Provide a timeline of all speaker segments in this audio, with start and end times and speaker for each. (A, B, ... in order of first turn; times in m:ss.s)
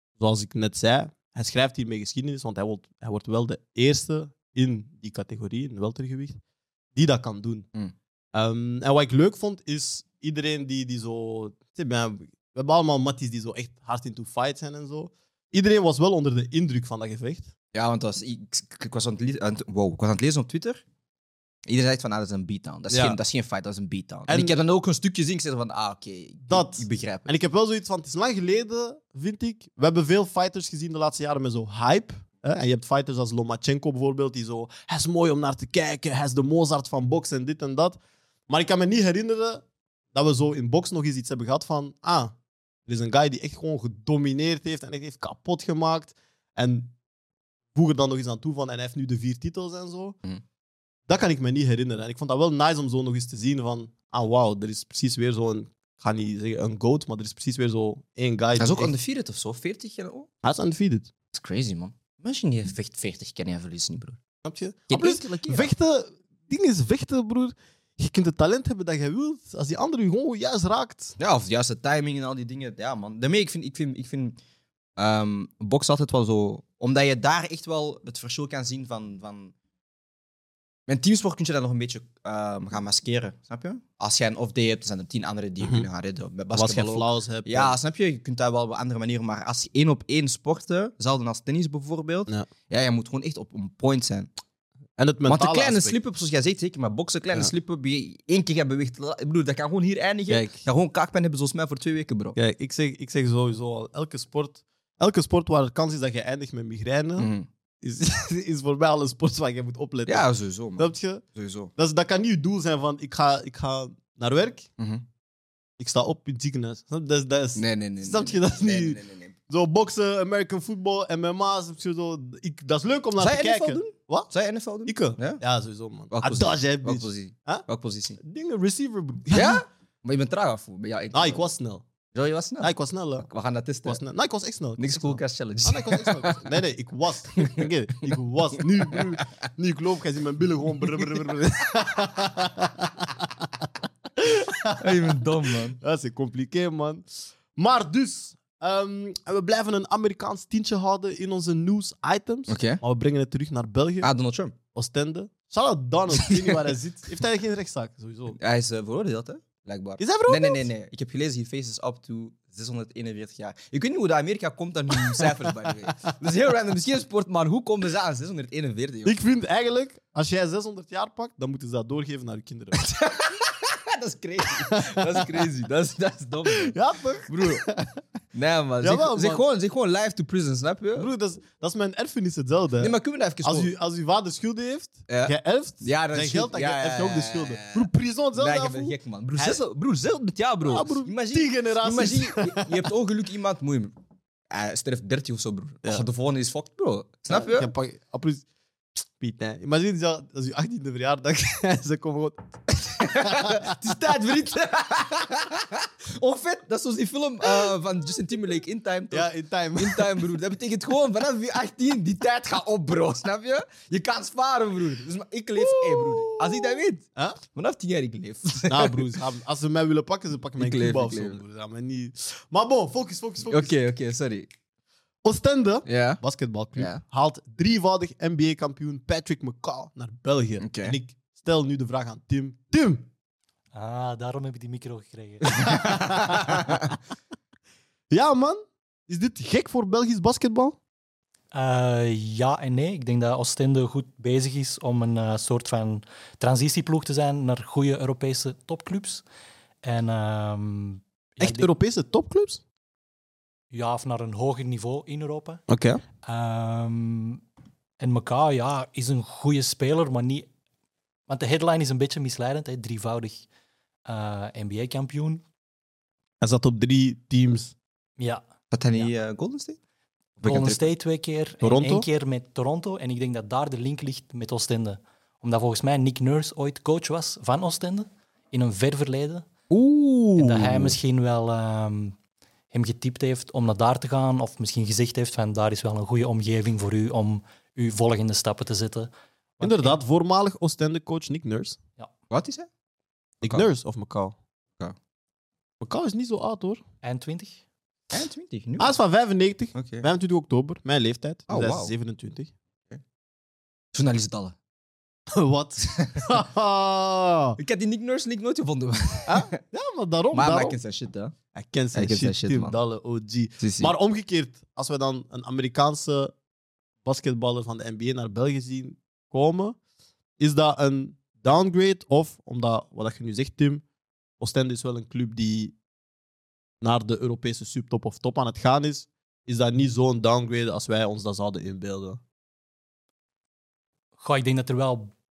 0:00.2-0:06.4 A
0:07.0-0:07.7 A
0:08.3-0:17.5 A
0:17.7-0:20.8 B
0:21.7-0:27.3 B
0:22.9-0:23.2 A
0:24.3-0:24.6 A
0:26.5-0:42.3 A
0:42.9-0:46.9 A
0:47.7-0:50.2 A
0:51.1-0:58.9 A
0:58.6-1:00.3 B
1:00.4-1:01.1 A
1:01.3-1:04.2 B
1:04.4-1:11.2 A
1:04.9-1:05.7 B
1:11.2-1:14.4 B
1:15.0-1:19.5 B
1:20.9-1:34.3 B
1:25.6-1:25.9 A
1:26.5-1:27.8 A
1:35.0-1:36.0 A
1:35.3-1:42.4 B
1:40.3-1:40.6 A
1:42.4-1:51.2 A
1:47.2-1:47.5 B
1:50.1-1:51.7 B
1:51.8-1:54.7 A
1:54.8-1:55.0 B
1:55.8-2:04.3 A
1:57.6-1:59.3 B
2:03.2-2:05.4 B
2:04.9-2:07.7 A
2:06.1-2:08.2 B
2:08.2-2:09.6 A
2:09.3-2:11.5 B
2:11.1-2:11.8 A
2:12.1-2:12.7 B
2:12.6-2:13.3 A
2:13.2-2:14.0 B
2:13.8-2:34.1 A
2:14.8-2:16.5 B
2:17.4-2:19.0 B
2:24.7-2:25.8 B
2:32.5-2:32.8 B
2:34.0-2:34.6 B
2:34.7-2:38.4 A
2:36.3-2:36.6 B
2:38.4-2:49.2 B
2:40.0-2:40.6 A
2:49.0-2:52.8 A
2:52.8-2:56.8 B
2:54.7-2:55.4 A
2:56.5-2:57.9 A
2:57.3-2:57.7 B
2:58.3-3:01.1 B
2:58.8-2:59.4 A
3:01.0-3:09.6 A
3:02.8-3:03.7 B
3:05.1-3:13.9 B
3:10.6-3:12.8 A
3:14.5-3:17.7 B
3:17.3-3:18.5 A
3:19.2-3:23.7 A
3:23.0-3:39.1 B
3:29.1-3:30.2 A
3:35.6-3:37.4 A
3:38.7-3:43.8 A
3:40.6-3:41.4 B
3:43.5-3:44.5 B
3:45.2-3:53.1 A
3:45.9-3:46.2 B
3:46.8-3:47.0 B
3:50.6-3:51.0 B
3:53.7-3:55.9 C
3:55.6-3:56.8 B
3:55.6-3:56.9 A
3:58.1-4:00.8 A
4:01.5-4:09.2 C
4:09.8-4:11.7 C
4:11.4-4:12.6 A
4:13.7-4:15.6 C
4:15.7-4:16.0 A
4:16.2-4:17.4 C
4:18.0-4:20.5 C
4:21.3-4:23.5 C
4:24.1-4:25.4 C
4:26.4-4:27.8 A
4:28.2-4:28.4 C
4:28.7-4:29.8 B
4:30.4-4:30.8 B
4:30.4-4:39.5 C
4:31.6-4:32.1 A
4:39.7-4:40.0 B
4:40.2-4:41.0 A
4:40.4-4:42.2 C
4:42.7-4:50.0 C
4:49.6-4:51.8 A
4:52.3-4:52.7 B
4:53.4-4:54.4 A
4:55.8-4:56.8 A
4:57.0-4:57.6 C
4:58.1-4:59.0 B
4:58.8-5:02.5 A
4:59.8-5:00.0 B
5:01.5-5:01.9 B
5:03.9-5:04.6 B
5:05.3-5:07.6 A
5:07.6-5:09.5 B
5:09.3-5:10.8 A
5:10.3-5:11.4 B
5:11.5-5:16.3 A
5:11.9-5:12.8 B
5:13.6-5:13.9 B
5:17.0-5:19.8 A
5:20.4-5:23.8 A
5:24.4-5:25.8 A
5:26.8-5:32.2 A
5:34.2-5:35.1 C